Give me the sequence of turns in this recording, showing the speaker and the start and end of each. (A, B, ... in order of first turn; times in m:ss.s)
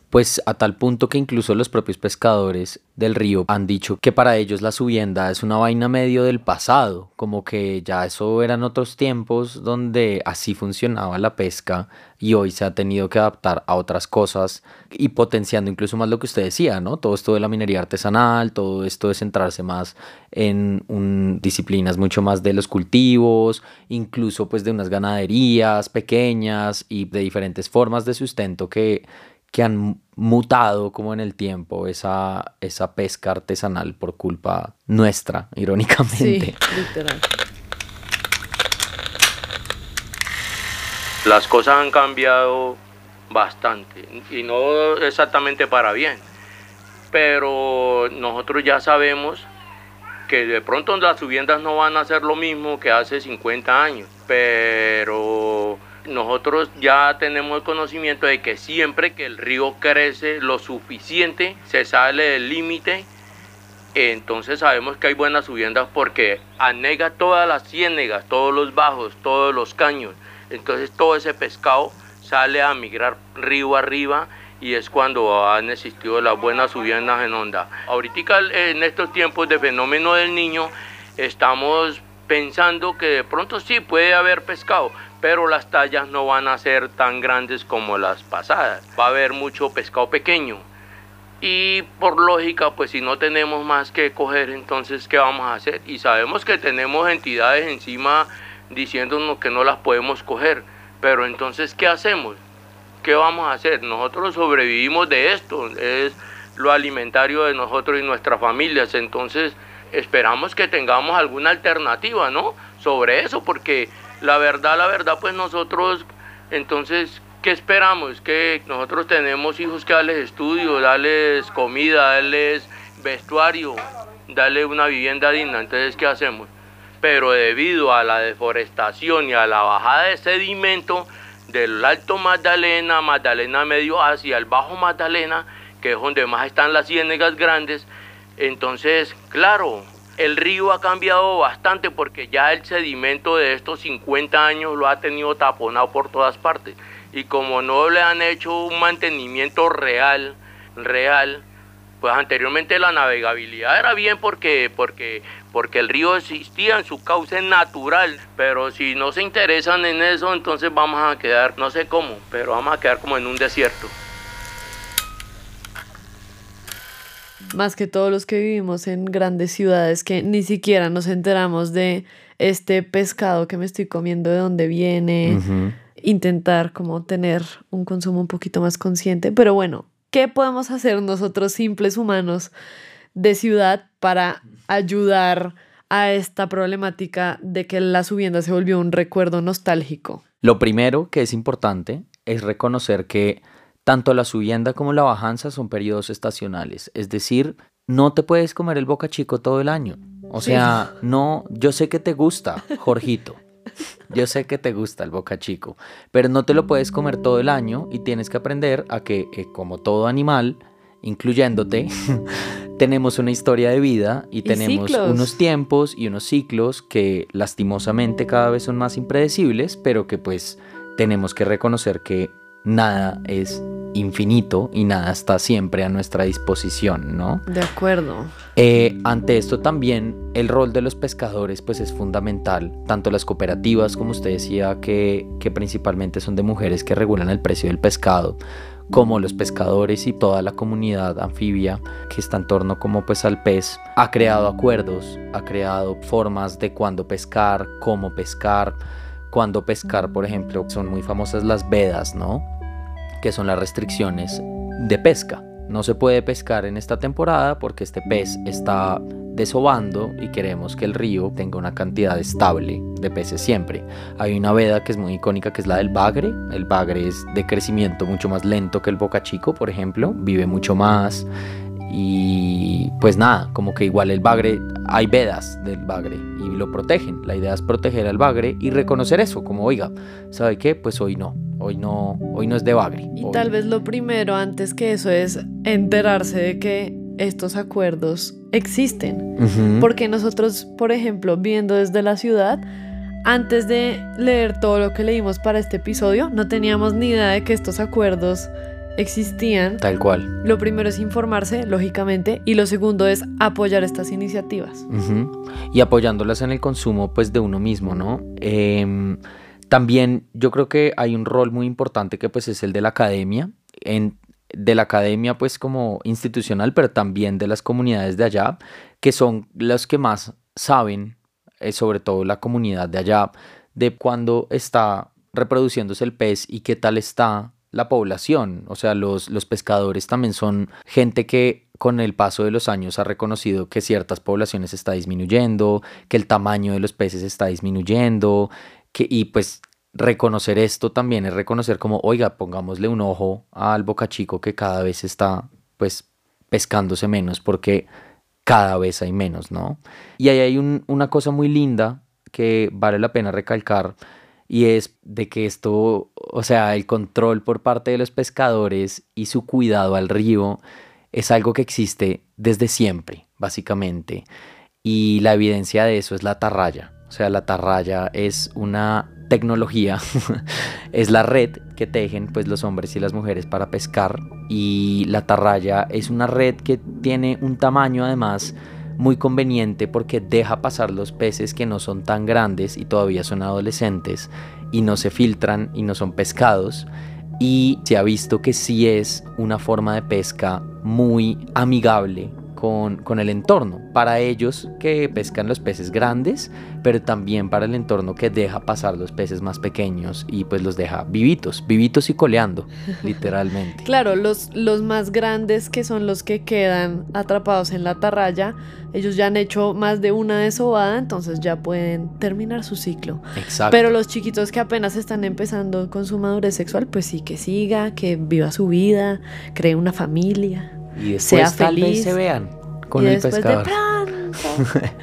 0:00.1-0:36.7 A
0:36.1-0:37.2 B
0:41.2-0:42.8 C
0:43.3-0:46.2 C
0:47.1-0:49.5 C
0:50.3-1:03.1 C
1:03.9-1:30.6 C
1:31.4-1:42.4 C
1:43.0-2:06.5 C
2:07.0-2:31.4 C
2:32.0-2:43.9 C
2:47.5-2:55.4 B
2:55.2-2:55.8 A
2:56.0-3:02.5 B
3:03.1-3:10.2 B
3:10.4-3:23.4 A
3:20.4-3:20.8 B
3:24.1-3:47.5 A
3:34.4-3:35.4 B
3:47.5-3:48.3 B
3:48.6-3:58.4 A
3:58.9-4:08.8 A
4:09.3-4:12.5 A
4:13.2-4:31.3 A
4:31.9-4:43.5 A
4:43.2-4:52.6 B
4:49.4-4:49.9 A
4:53.2-4:59.8 B
4:59.8-5:00.3 A
5:00.4-5:04.9 B
5:04.9-5:47.9 A
5:48.4-5:54.0 A
5:54.5-6:00.6 A
6:01.1-6:04.2 A
6:04.8-6:43.9 A
6:43.8-7:02.2 B
6:53.4-6:54.0 A
7:01.0-7:03.8 A
7:02.9-7:04.6 B
7:04.6-7:04.9 A